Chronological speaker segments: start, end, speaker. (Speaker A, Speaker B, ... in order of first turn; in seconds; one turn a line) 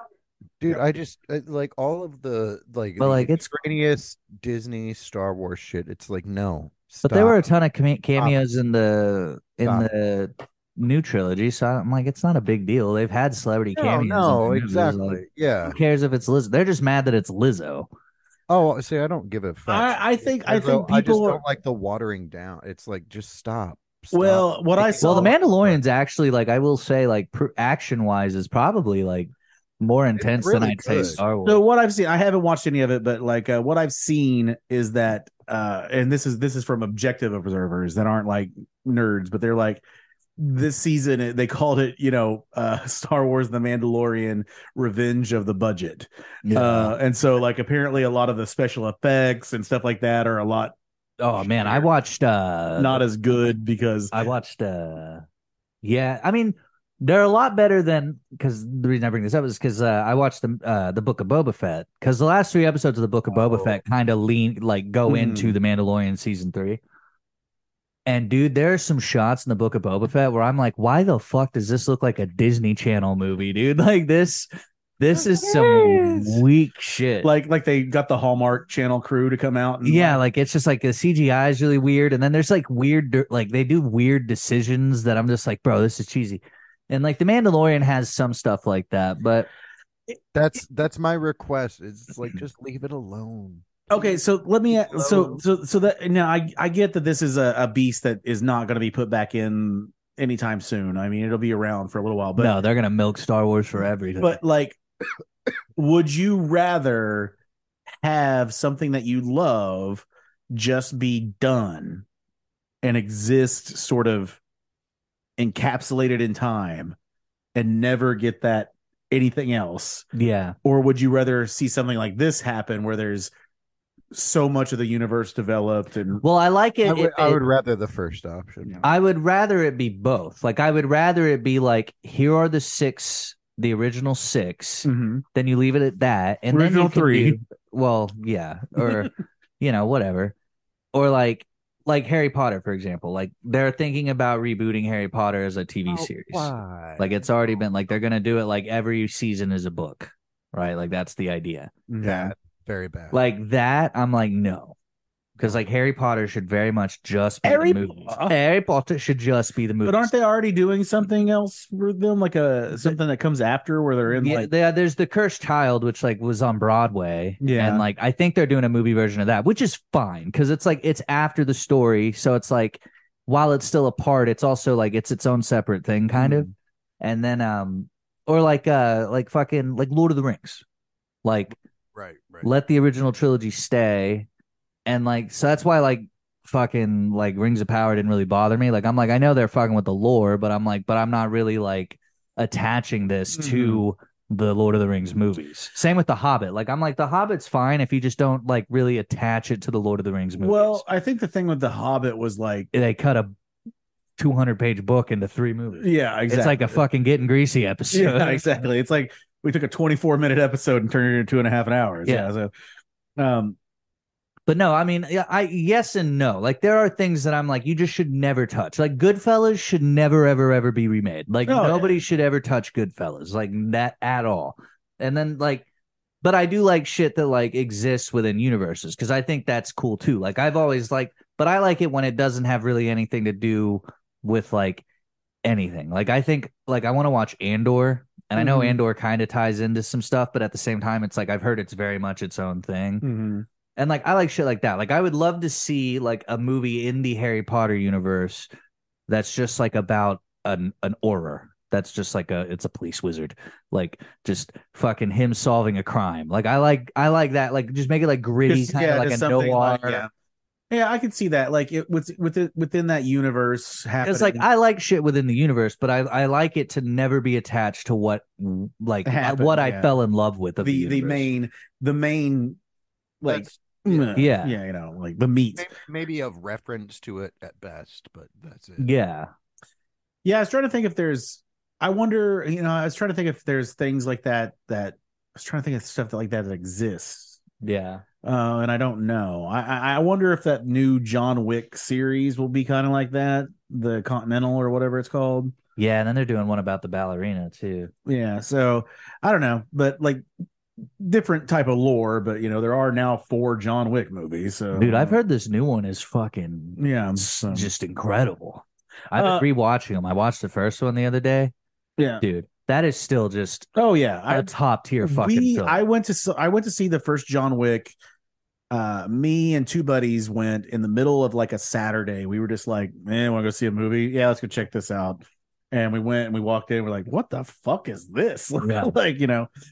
Speaker A: 0.6-7.4
Speaker B: 3.0-3.5
Speaker B: 7.0-17.9
Speaker A: 9.6-9.9
Speaker A: 13.8-15.8
Speaker A: 18.5-25.8
Speaker C: 19.7-21.4
Speaker C: 24.1-25.4
Speaker B: 24.8-31.6
Speaker A: 30.2-31.2
Speaker C: 31.4-39.8
Speaker C: 40.4-50.7
Speaker B: 46.4-46.9
Speaker B: 51.2-53.0
Speaker C: 51.4-51.9
Speaker C: 52.8-54.1
Speaker B: 54.1-55.2
Speaker B: 55.8-66.8
Speaker A: 63.3-63.8
Speaker C: 65.1-65.6
Speaker B: 68.0-74.5
Speaker B: 75.0-77.3
Speaker C: 75.6-76.4
Speaker C: 77.2-80.2
Speaker B: 79.8-89.5
Speaker A: 90.3-93.7
Speaker C: 93.9-102.6
Speaker A: 94.7-95.4
Speaker B: 102.4-104.4
Speaker C: 104.2-104.8
Speaker C: 105.8-107.3
Speaker C: 108.0-112.0
Speaker C: 112.8-114.4
Speaker C: 115.4-116.9
Speaker C: 117.5-120.0
Speaker B: 120.1-120.5
Speaker C: 120.6-123.3
Speaker C: 124.1-126.2
Speaker B: 126.2-127.4
Speaker A: 126.8-128.8
Speaker B: 128.8-140.3
Speaker C: 134.8-135.2
Speaker C: 136.5-137.4
Speaker B: 140.9-151.7
Speaker A: 145.9-147.2
Speaker C: 151.9-152.3
Speaker A: 152.0-153.2
Speaker B: 153.1-154.8
Speaker B: 155.4-160.1
Speaker C: 157.4-158.3
Speaker C: 159.8-164.5
Speaker B: 164.1-176.5
Speaker C: 167.4-167.8
Speaker C: 176.2-176.5
Speaker B: 177.0-180.6
Speaker B: 181.2-181.5
Speaker A: 181.9-182.5
Speaker B: 182.4-184.3
Speaker B: 184.8-200.8
Speaker C: 193.3-193.8
Speaker C: 200.4-202.7
Speaker B: 202.7-203.3
Speaker B: 204.2-208.4
Speaker C: 205.8-206.8
Speaker C: 207.9-212.5
Speaker B: 212.0-212.3
Speaker C: 213.2-213.6
Speaker B: 214.5-225.7
Speaker C: 221.5-222.0
Speaker B: 226.2-234.8
Speaker B: 235.4-243.0
Speaker C: 238.4-238.8
Speaker C: 243.0-243.4
Speaker B: 243.8-248.5
Speaker B: 249.1-260.1
Speaker C: 258.5-260.1
Speaker C: 260.7-264.4
Speaker B: 264.0-271.3
Speaker C: 269.1-269.9
Speaker C: 270.6-272.6
Speaker C: 273.2-275.7
Speaker A: 273.2-274.2
Speaker B: 274.1-274.6
Speaker A: 275.6-278.9
Speaker B: 278.8-279.3
Speaker C: 280.2-287.4
Speaker B: 287.6-288.0
Speaker C: 288.2-295.5
Speaker B: 295.8-297.9
Speaker C: 298.1-300.2
Speaker C: 301.0-305.2
Speaker B: 304.7-311.5
Speaker C: 306.8-307.7
Speaker C: 309.1-309.4
Speaker C: 312.0-312.2
Speaker B: 312.2-313.7
Speaker C: 313.8-317.9
Speaker B: 314.3-315.8
Speaker C: 318.7-329.5
Speaker B: 328.6-328.9